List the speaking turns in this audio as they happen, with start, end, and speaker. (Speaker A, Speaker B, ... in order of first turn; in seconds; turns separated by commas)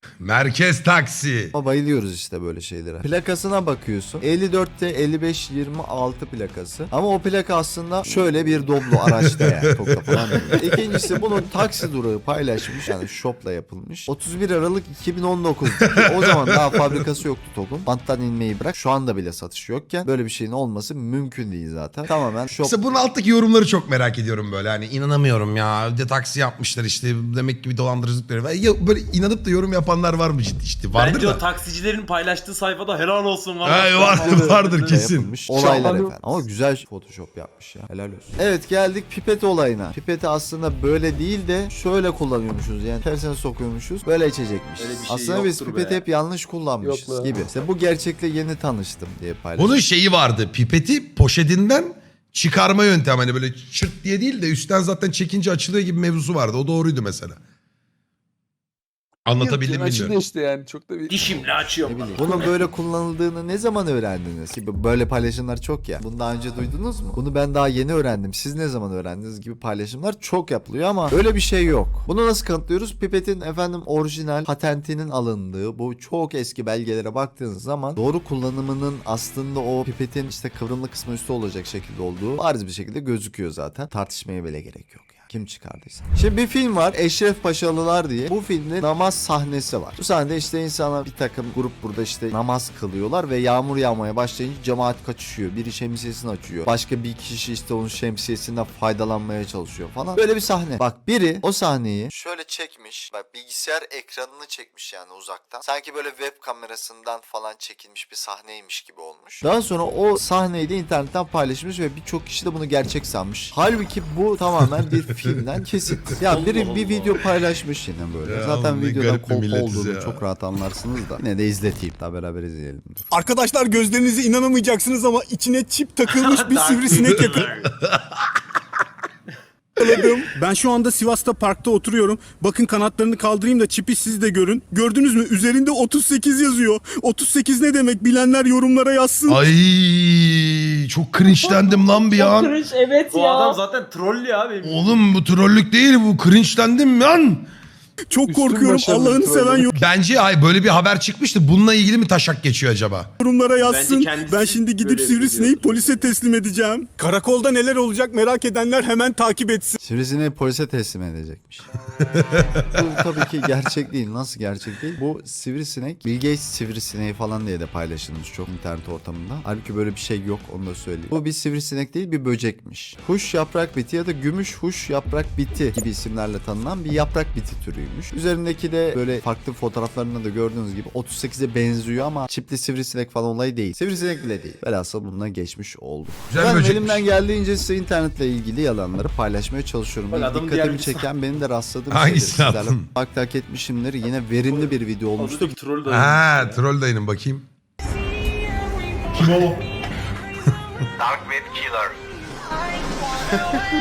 Speaker A: 0.2-1.5, Speaker B: 1.5-22.8, Speaker A: 9.0-11.2, Speaker A: 15.8-17.0, Speaker A: 22.5-31.4, Speaker C: 30.9-35.1, Speaker A: 33.6-35.4, Speaker B: 34.2-49.8, Speaker D: 35.6-36.1, Speaker C: 44.8-46.0, Speaker D: 46.8-47.3, Speaker A: 49.6-57.4, Speaker A: 59.3-60.2, Speaker D: 59.4-61.2, Speaker C: 61.1-62.5, Speaker B: 61.8-123.0, Speaker A: 114.6-115.4, Speaker C: 116.2-117.1, Speaker A: 118.2-120.2, Speaker E: 123.1-127.5, Speaker C: 126.1-127.7, Speaker A: 127.6-128.3, Speaker E: 129.8-139.4, Speaker A: 139.3-142.6, Speaker F: 141.4-143.6, Speaker C: 143.1-145.0, Speaker A: 144.6-147.5, Speaker E: 148.1-149.7, Speaker D: 148.2-149.7, Speaker A: 149.7-153.1, Speaker E: 153.2-159.8, Speaker C: 153.6-156.1, Speaker B: 159.8-161.7, Speaker A: 162.1-162.8, Speaker B: 162.7-195.6, Speaker A: 186.3-187.1, Speaker C: 190.1-191.1, Speaker A: 191.9-192.8, Speaker C: 194.5-196.6, Speaker A: 195.9-197.5, Speaker A: 199.2-199.5